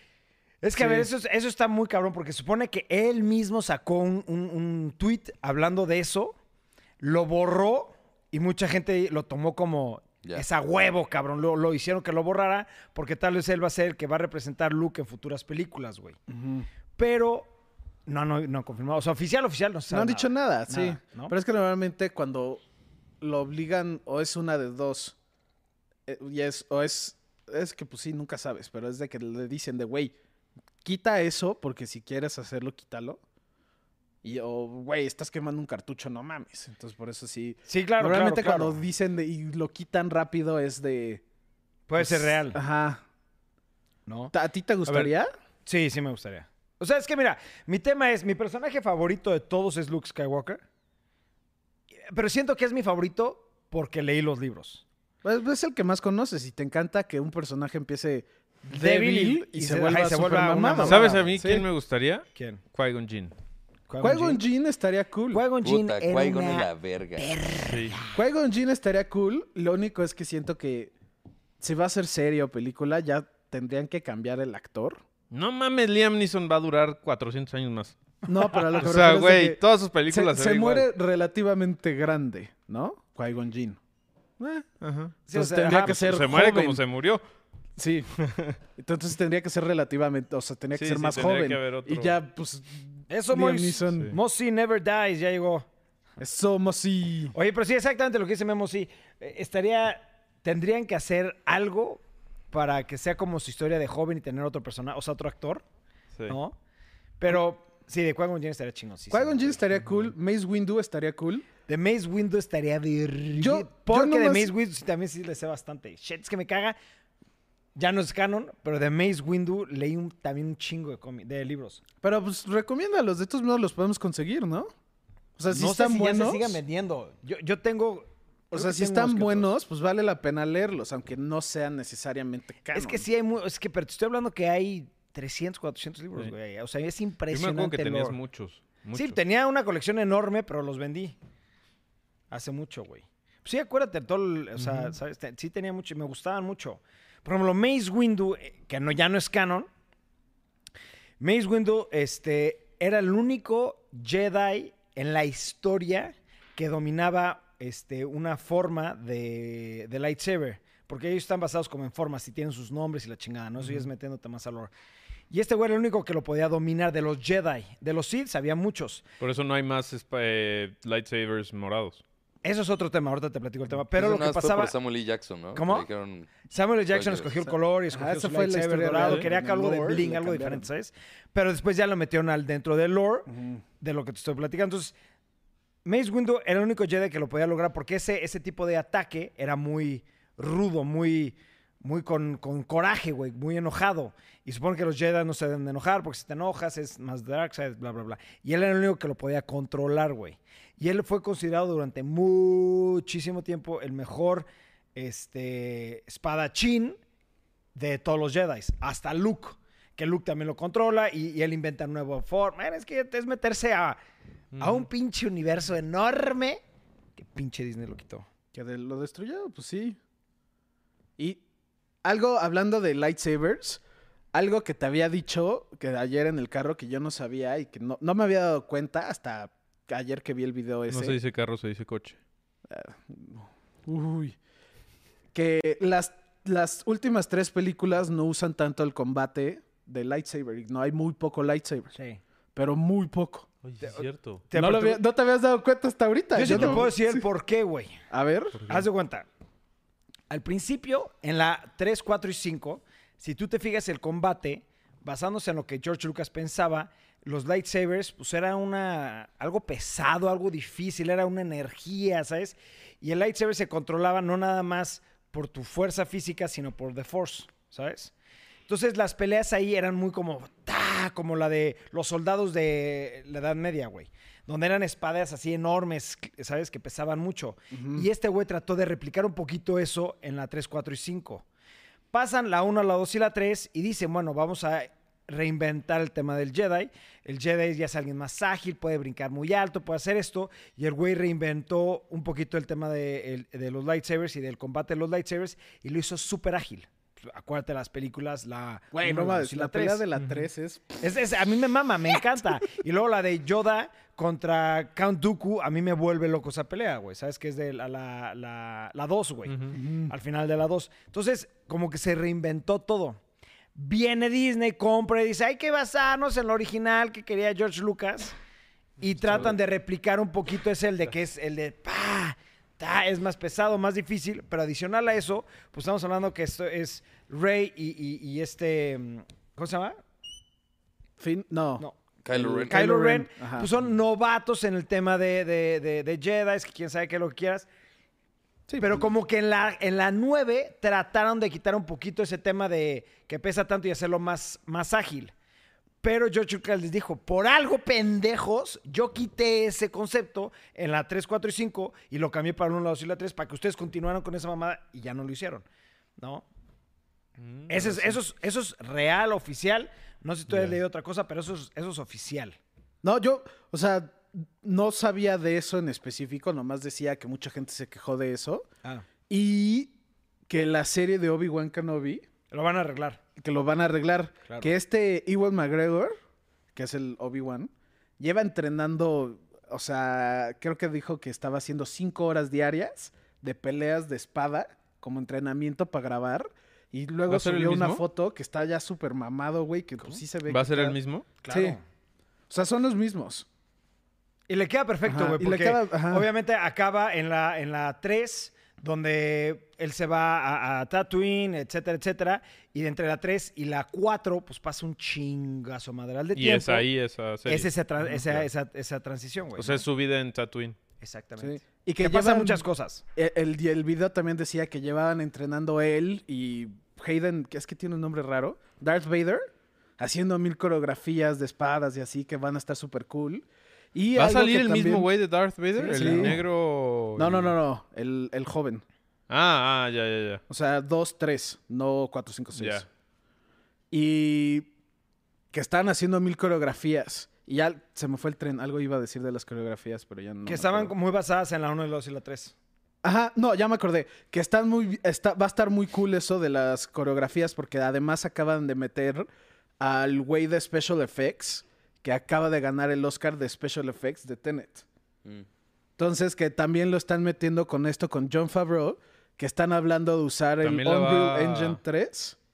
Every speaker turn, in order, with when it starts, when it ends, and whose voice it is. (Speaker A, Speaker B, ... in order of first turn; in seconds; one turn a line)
Speaker A: 0.6-6.3
Speaker B: 0.8-1.1
Speaker A: 7.0-16.2
Speaker B: 16.3-16.7
Speaker A: 16.9-17.5
Speaker A: 18.1-21.3
Speaker B: 19.9-22.6
Speaker B: 23.2-25.2
Speaker B: 26.1-30.1
Speaker B: 30.8-33.2
Speaker B: 34.2-41.2
Speaker A: 37.7-38.8
Speaker A: 41.9-42.6
Speaker B: 42.0-43.0
Speaker A: 44.1-44.3
Speaker B: 44.3-45.3
Speaker C: 44.9-45.1
Speaker A: 45.7-50.6
Speaker A: 52.1-54.8
Speaker B: 55.2-61.7
Speaker A: 58.7-61.3
Speaker C: 60.8-63.3
Speaker A: 62.4-62.6
Speaker A: 63.9-64.4
Speaker B: 64.0-65.4
Speaker A: 65.3-68.1
Speaker D: 65.6-67.3
Speaker C: 67.7-68.0
Speaker B: 68.1-70.9
Speaker B: 71.6-75.0
Speaker C: 75.3-78.0
Speaker B: 78.3-83.8
Speaker C: 78.5-80.9
Speaker B: 84.4-84.7
Speaker C: 84.8-85.2
Speaker A: 85.3-86.0
Speaker B: 85.3-86.8
Speaker C: 85.7-87.2
Speaker B: 87.8-88.1
Speaker C: 88.2-88.6
Speaker B: 88.8-94.1
Speaker C: 90.7-92.2
Speaker A: 93.1-95.7
Speaker C: 93.9-94.2
Speaker B: 96.2-97.3
Speaker A: 97.3-105.6
Speaker A: 106.3-106.6
Speaker A: 107.2-109.6
Speaker B: 109.1-111.5
Speaker A: 111.7-116.8
Speaker B: 113.4-114.5
Speaker A: 117.8-121.8
Speaker B: 122.0-124.7
Speaker B: 125.4-126.6
Speaker A: 125.5-129.5
Speaker B: 128.5-133.1
Speaker A: 132.7-138.2
Speaker C: 137.3-139.2
Speaker A: 138.9-141.2
Speaker A: 142.3-149.7
Speaker C: 144.6-144.9
Speaker A: 151.2-164.7
Speaker C: 163.6-163.9
Speaker A: 165.3-169.0
Speaker C: 169.2-172.0
Speaker A: 172.4-174.7
Speaker D: 173.9-176.3
Speaker A: 175.5-175.9
Speaker A: 176.4-184.9
Speaker D: 176.9-177.4
Speaker B: 177.9-180.7
Speaker C: 178.9-179.2
Speaker B: 183.3-183.6
Speaker A: 185.8-207.0
Speaker A: 207.8-214.0
Speaker C: 214.5-214.9
Speaker A: 214.6-216.6
Speaker A: 217.2-218.3
Speaker B: 218.5-220.0
Speaker B: 222.0-223.8
Speaker B: 224.3-231.2
Speaker C: 230.9-232.2
Speaker B: 232.7-234.4
Speaker B: 235.3-241.9
Speaker A: 241.9-242.2
Speaker B: 242.6-243.5
Speaker C: 243.6-244.4
Speaker A: 243.8-245.0
Speaker B: 244.5-247.2
Speaker A: 246.3-248.0
Speaker C: 246.4-246.8
Speaker B: 248.1-248.6
Speaker A: 248.6-249.3
Speaker A: 250.3-268.1
Speaker A: 268.7-281.4
Speaker B: 277.7-278.1
Speaker A: 282.1-300.1
Speaker B: 298.9-301.1
Speaker C: 300.2-300.4
Speaker A: 301.0-313.2
Speaker C: 309.5-309.7
Speaker B: 309.7-310.1
Speaker A: 313.8-318.4
Speaker A: 319.0-330.0
Speaker C: 319.1-319.5
Speaker B: 331.2-333.7
Speaker D: 332.2-332.8
Speaker A: 332.6-337.7
Speaker B: 338.7-339.1
Speaker A: 338.8-345.3
Speaker A: 346.0-355.6
Speaker A: 356.2-356.4
Speaker C: 357.4-358.1
Speaker A: 357.7-362.6
Speaker C: 360.5-360.8
Speaker B: 363.0-368.7
Speaker B: 369.3-369.9
Speaker B: 370.5-372.2
Speaker A: 372.5-373.2
Speaker B: 373.4-376.1
Speaker A: 374.5-374.7
Speaker B: 376.7-391.0
Speaker C: 387.3-388.0
Speaker C: 390.5-391.3
Speaker A: 391.4-391.8
Speaker B: 391.5-391.8
Speaker B: 392.5-393.5
Speaker A: 394.5-406.9
Speaker B: 395.1-396.3
Speaker C: 406.4-408.5
Speaker A: 407.4-409.8
Speaker C: 409.6-410.8
Speaker A: 411.0-413.0
Speaker B: 411.4-419.5
Speaker B: 420.0-425.1
Speaker C: 424.1-427.5
Speaker B: 425.8-426.4
Speaker A: 425.9-426.4
Speaker B: 427.2-428.8
Speaker C: 429.3-430.4
Speaker B: 430.5-432.9
Speaker C: 432.6-432.9
Speaker B: 433.9-434.7
Speaker B: 435.5-440.9
Speaker A: 440.5-442.6
Speaker B: 443.0-449.3
Speaker B: 449.8-454.9
Speaker B: 456.0-462.4
Speaker C: 460.6-461.8